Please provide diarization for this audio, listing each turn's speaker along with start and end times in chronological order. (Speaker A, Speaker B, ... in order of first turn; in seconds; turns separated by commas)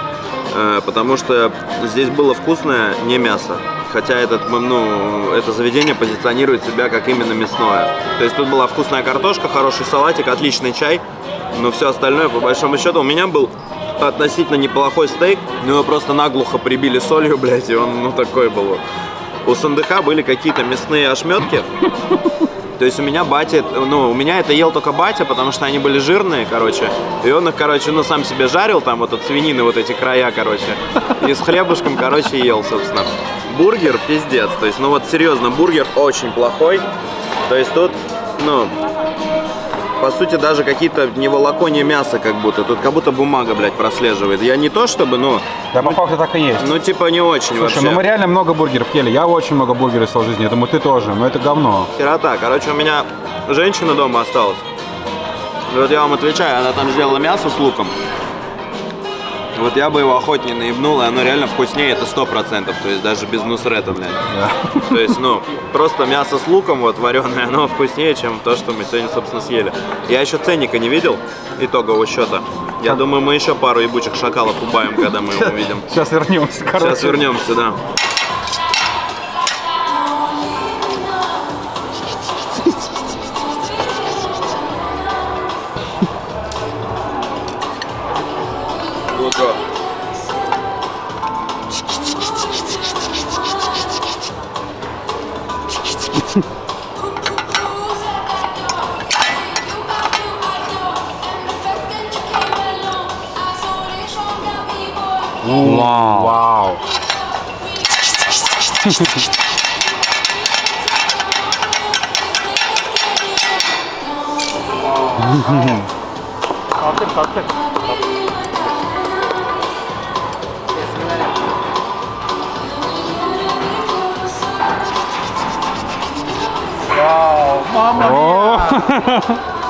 Speaker A: 0.5-18.8, Speaker A: 19.4-21.7, Speaker A: 22.8-36.9, Speaker A: 37.5-38.7, Speaker A: 40.0-46.0, Speaker B: 45.7-46.7, Speaker A: 46.5-48.0, Speaker B: 47.5-51.9, Speaker A: 51.9-54.6, Speaker A: 55.7-58.0, Speaker A: 59.5-75.9, Speaker B: 64.3-65.1, Speaker B: 75.2-77.3, Speaker A: 76.8-77.8, Speaker A: 89.0-89.6, Speaker B: 105.4-106.8, Speaker A: 105.5-106.3, Speaker B: 108.8-109.3, Speaker B: 115.2-115.9, Speaker C: 120.8-121.2, Speaker C: 127.0-128.8, Speaker B: 127.9-129.4